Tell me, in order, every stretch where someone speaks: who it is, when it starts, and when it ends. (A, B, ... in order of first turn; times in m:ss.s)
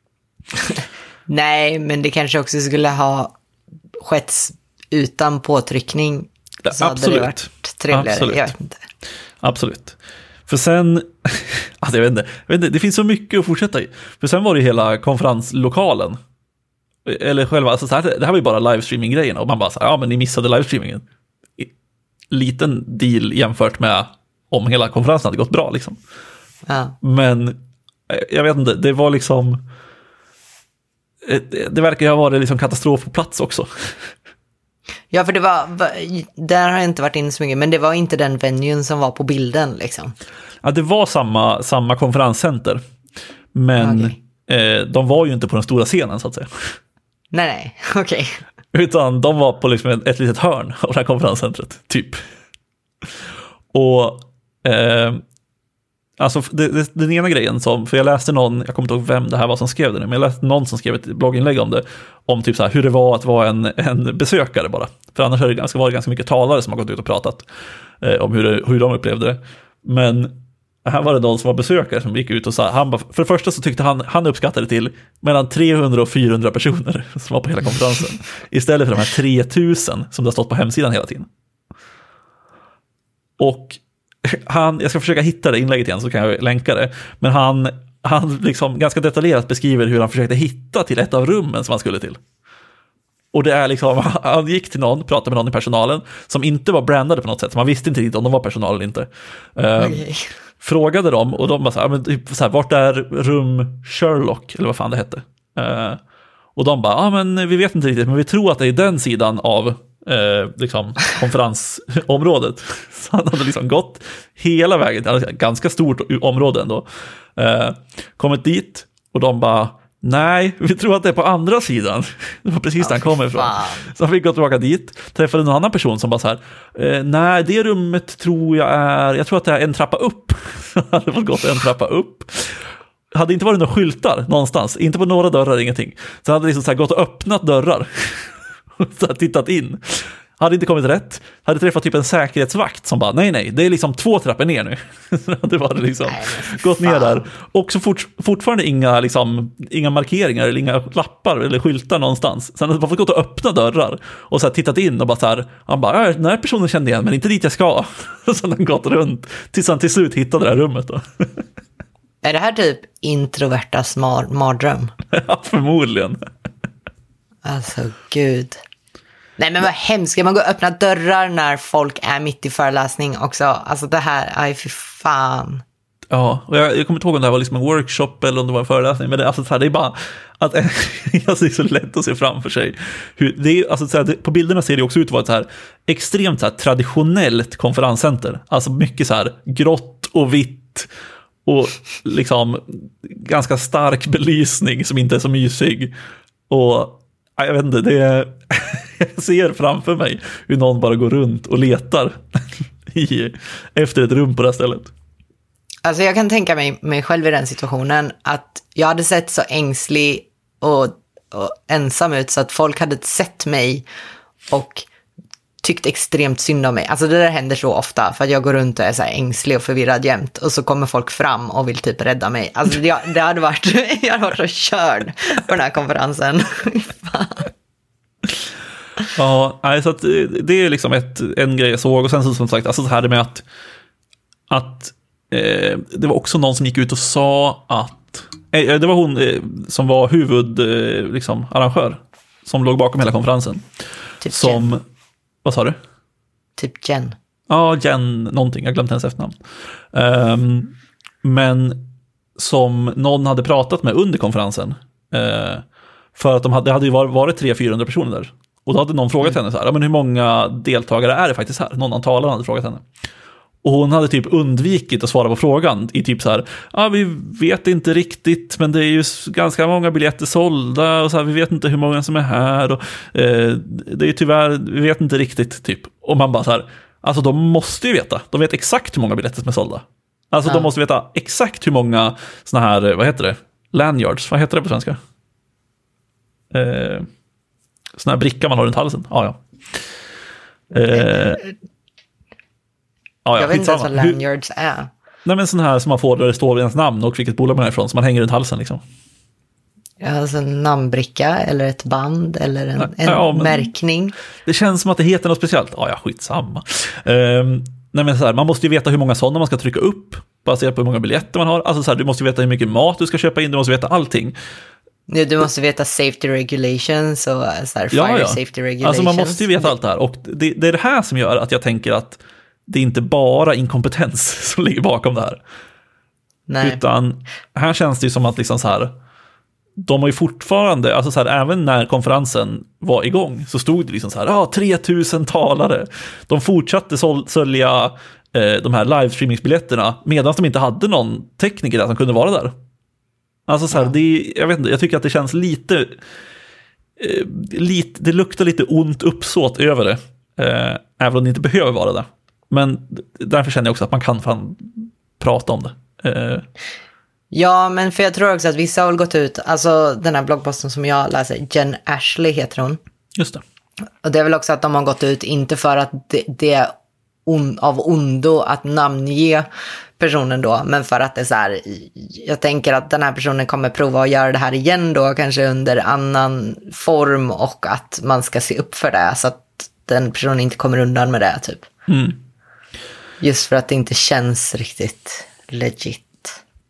0:01.3-0:03.3 A
0:04.0-0:08.8 A
0:06.6-0:08.5 B
0:09.4-0:10.0 B
0:10.5-0:16.2 B
0:17.1-0:21.0 B
0:22.3-0:26.0 B
0:26.6-0:27.0 A
0:27.0-0:29.6 B
0:31.2-0:34.1 B
0:35.1-0:40.1 A
0:40.6-0:42.8 B
0:43.5-0:46.7 B
0:43.8-0:44.2 A
0:47.3-0:48.4 A
0:48.7-0:52.2 B
0:53.7-0:55.2 B
0:56.2-1:07.4 B
1:08.0-1:21.3 B
1:23.4-1:32.2 B
1:33.3-1:40.0 B
1:39.8-1:40.3 A
1:40.6-1:46.0 B
1:46.6-2:41.4 B
2:02.8-2:03.9 A
2:26.0-2:27.3 A
2:42.2-2:44.9 A
2:45.1-2:46.2 B
2:47.4-2:48.6 A
2:49.4-2:55.6 A
2:56.1-3:10.9 B
3:11.4-3:15.9 B
3:16.5-3:24.9 B
3:25.8-3:33.8 A
3:34.5-3:34.9 A
3:35.6-3:47.5 A
3:49.1-3:53.4 B
3:54.5-4:03.6 B
4:04.2-4:04.7 A
4:04.3-4:04.8 B
4:05.4-4:05.8 B
4:06.6-4:07.2 A
4:07.5-4:09.4 B
4:09.9-4:15.6 B
4:16.2-4:22.9 B
4:23.6-4:45.0 B
4:46.5-4:47.1 B
4:48.0-4:49.8 B
4:50.7-4:51.4 B
4:53.2-4:54.2 B
4:53.4-4:54.9 A
4:55.2-4:58.8 B
5:00.0-5:04.1 A
5:02.8-5:03.7 B
5:04.5-5:14.4 B
5:15.1-5:19.7 A
5:17.9-5:25.4 B
5:26.5-5:26.8 A
5:26.6-5:28.9 B
5:29.8-5:42.5 B
5:43.5-5:46.0 B
5:47.0-5:56.5 B
5:57.3-6:02.8 A
6:03.2-6:03.4 B
6:04.0-6:06.7 A
6:07.2-6:21.7 A
6:21.9-6:22.2 B
6:23.2-6:26.4 A